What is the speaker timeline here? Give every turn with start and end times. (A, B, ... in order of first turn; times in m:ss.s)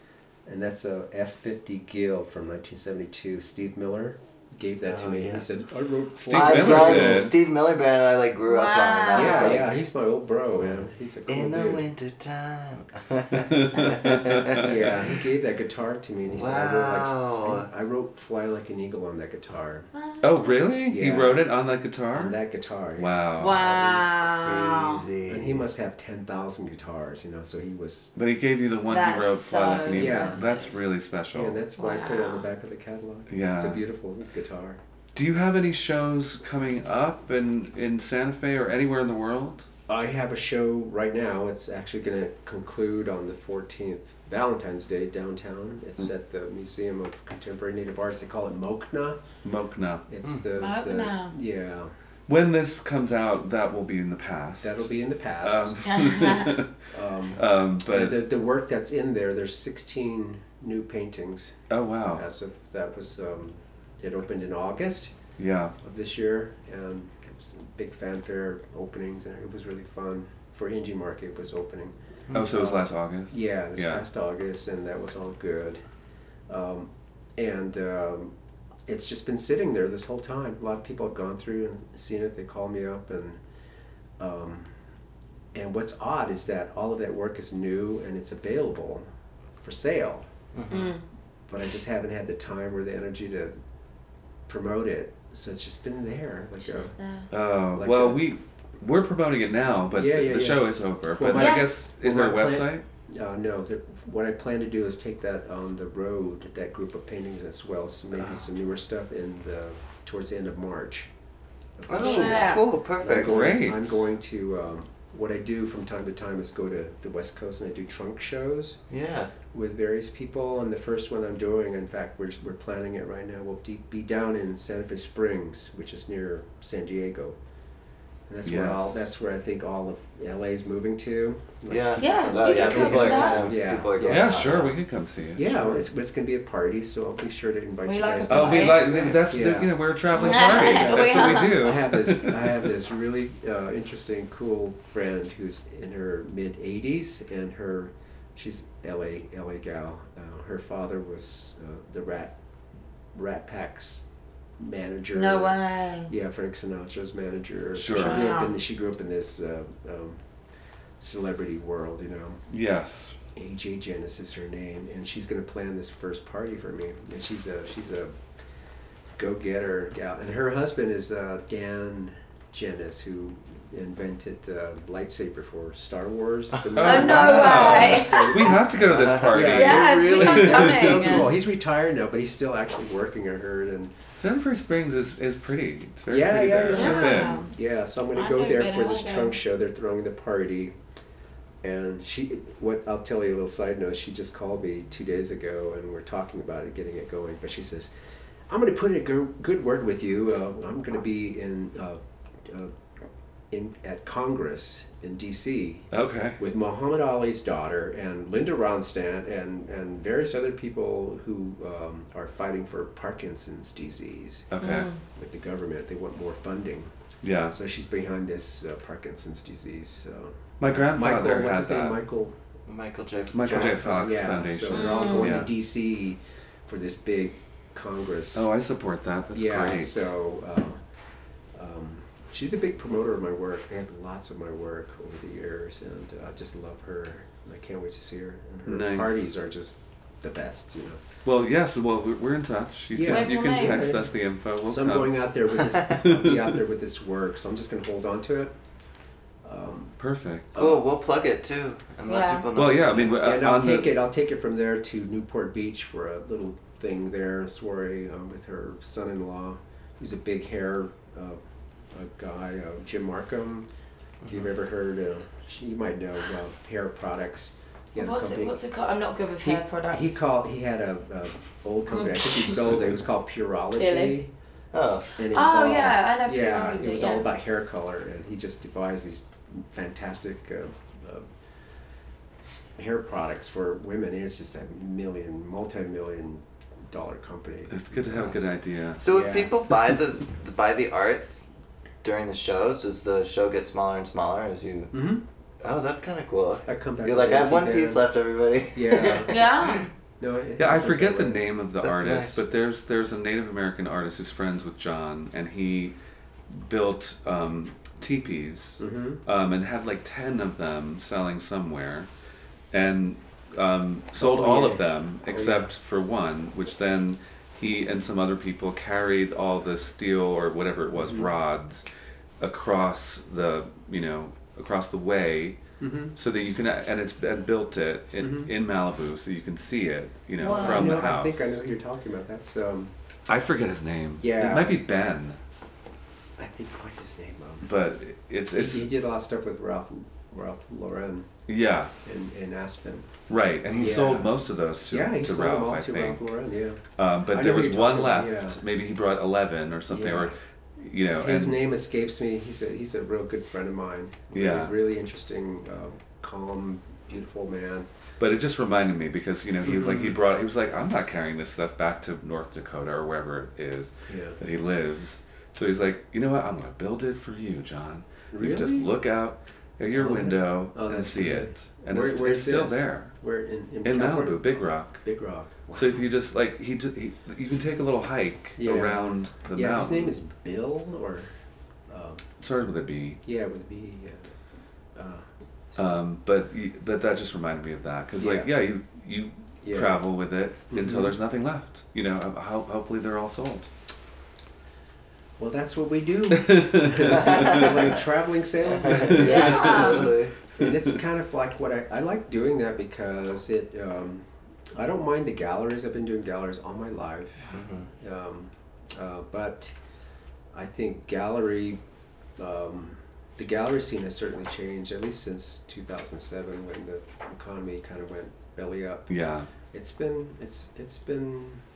0:00.4-0:07.3 A
0:04.8-0:05.4 B
0:06.2-0:07.3 C
0:06.3-0:09.7 B
0:08.5-0:09.6 D
0:09.1-0:11.8 A
0:11.3-0:14.7 B
0:13.4-0:14.8 C
0:13.7-0:14.4 D
0:14.5-0:19.9 A
0:16.3-0:17.7 B
0:19.9-0:20.5 D
0:20.2-0:22.3 C
0:20.9-0:21.4 A
0:22.1-0:23.1 A
0:23.0-0:23.5 C
0:23.4-0:25.0 D
0:23.4-0:25.6 B
0:25.2-0:28.1 A
0:28.2-0:31.6 C
0:28.9-0:30.7 D
0:29.9-0:30.5 A
0:31.3-0:34.8 A
0:31.8-0:32.5 D
0:33.3-0:33.8 C
0:35.1-0:39.7 C
0:39.9-0:49.2 A
0:49.4-0:50.0 C
0:50.1-0:51.9 A
0:50.6-0:51.3 D
0:52.3-0:54.9 C
0:54.6-0:56.0 A
0:55.4-0:56.7 C
0:55.8-0:56.5 D
0:56.9-1:01.6 A
0:57.3-0:58.2 C
1:01.7-1:02.2 C
1:02.1-1:05.1 A
1:05.4-1:05.7 C
1:05.8-1:15.8 A
1:12.3-1:12.6 B
1:12.3-1:14.0 C
1:16.5-1:18.3 A
1:18.9-1:23.4 A
1:24.2-1:24.7 A
1:25.5-1:29.0 A
1:29.6-1:30.3 A
1:30.5-1:30.9 B
1:30.7-1:31.0 D
1:31.5-1:33.6 A
1:34.5-1:36.9 A
1:36.6-1:37.3 D
1:37.3-1:42.8 C
1:37.7-1:38.2 A
1:39.9-1:51.1 A
1:41.3-1:41.7 D
1:51.8-1:58.8 A
1:51.9-1:53.4 B
1:51.9-1:52.6 D
1:53.1-1:54.0 C
1:58.9-1:59.3 B
1:59.5-2:07.4 A
2:08.3-2:14.5 A
2:08.4-2:09.0 C
2:11.7-2:14.7 B
2:12.0-2:13.6 D
2:14.0-2:15.9 C
2:15.3-2:32.4 A
2:17.8-2:19.0 D
2:18.3-2:22.7 C
2:20.1-2:21.6 D
2:33.1-2:34.0 A
2:34.6-2:35.6 A
2:35.1-2:36.1 D
2:36.1-2:40.2 A
2:37.7-2:38.4 C
2:37.9-2:38.5 D
2:41.0-2:42.4 A
2:42.5-2:43.2 C
2:43.3-2:48.1 A
2:49.2-3:03.9 A
2:56.7-3:01.3 C
2:56.8-2:58.6 D
2:58.9-2:59.3 B
2:59.3-3:01.4 D
3:04.2-3:07.4 C
3:06.1-3:10.7 A
3:06.7-3:07.5 D
3:08.1-3:09.4 D
3:11.6-3:17.9 A
3:18.5-3:22.7 A
3:23.5-3:34.5 A
3:25.9-3:26.4 C
3:34.5-3:34.9 C
3:34.6-3:35.0 D
3:35.1-3:36.9 A
3:37.2-3:37.5 C
3:37.5-3:42.3 A
3:40.6-3:42.0 C
3:42.6-3:44.2 B
3:43.3-3:45.5 C
3:43.4-3:48.5 A
3:44.7-3:45.3 D
3:48.3-3:50.1 C
3:49.3-3:50.8 A
3:51.5-4:01.0 A
3:58.6-3:59.3 C
4:01.2-4:06.5 C
4:02.9-4:08.5 A
4:03.0-4:03.9 D
4:09.4-4:09.9 A
4:10.0-4:10.8 C
4:10.5-4:13.2 B
4:12.1-4:12.5 D
4:12.5-4:13.9 C
4:13.2-4:23.7 A
4:24.2-4:28.6 A
4:28.0-4:30.2 D
4:29.4-4:34.3 A
4:31.9-4:32.5 D
4:33.8-4:34.2 D
4:34.7-4:35.1 B
4:35.2-4:41.3 A
4:35.3-4:37.3 D
4:42.8-4:48.4 A
4:47.7-4:49.0 C
4:49.0-4:51.4 B
4:49.0-4:49.5 A
4:52.0-4:54.9 B
4:54.9-4:55.2 A
4:55.6-4:59.9 B
4:56.6-4:58.0 A
4:58.7-4:59.4 A
4:59.3-4:59.9 D
5:00.2-5:01.4 A
5:00.6-5:05.9 C
5:01.8-5:02.4 B
5:06.5-5:12.1 C
5:08.8-5:09.2 A
5:12.7-5:21.8 C
5:14.2-5:15.7 A
5:20.9-5:21.3 A
5:22.4-5:25.6 C
5:25.8-5:26.1 A
5:26.1-5:31.6 C
5:28.2-5:28.5 A
5:30.4-5:31.0 D
5:30.4-5:32.9 A
5:33.3-5:35.4 C
5:34.2-5:34.8 A
5:36.4-5:37.7 A
5:37.6-5:38.9 C
5:38.5-5:41.3 A
5:41.5-5:41.9 C
5:42.0-5:43.1 A
5:43.3-5:46.2 C
5:43.7-5:44.4 A
5:44.9-5:48.6 A
5:47.0-5:51.6 C
5:49.9-5:50.4 A
5:51.1-5:57.9 A
5:54.3-5:54.7 C
5:58.2-6:13.1 C
5:59.6-6:00.1 A
6:04.1-6:04.4 A
6:08.3-6:09.0 A
6:09.9-6:16.0 A
6:13.8-6:15.0 C
6:15.7-6:20.2 C
6:18.6-6:21.3 A
6:21.9-6:22.2 A
6:22.4-6:23.2 C
6:23.2-6:24.4 A
6:24.9-6:25.9 A
6:25.8-6:33.7 C
6:28.2-6:28.5 A
6:29.6-6:30.0 A
6:30.7-6:31.2 A
6:35.4-6:49.7 A
6:36.3-6:37.9 C
6:37.3-6:37.7 B
6:38.8-6:40.3 B
6:39.0-6:40.0 C
6:39.2-6:40.2 D
6:47.5-6:47.9 B
6:50.5-6:51.8 A
6:52.4-6:59.1 A
6:59.1-6:59.5 C
6:59.7-7:01.6 A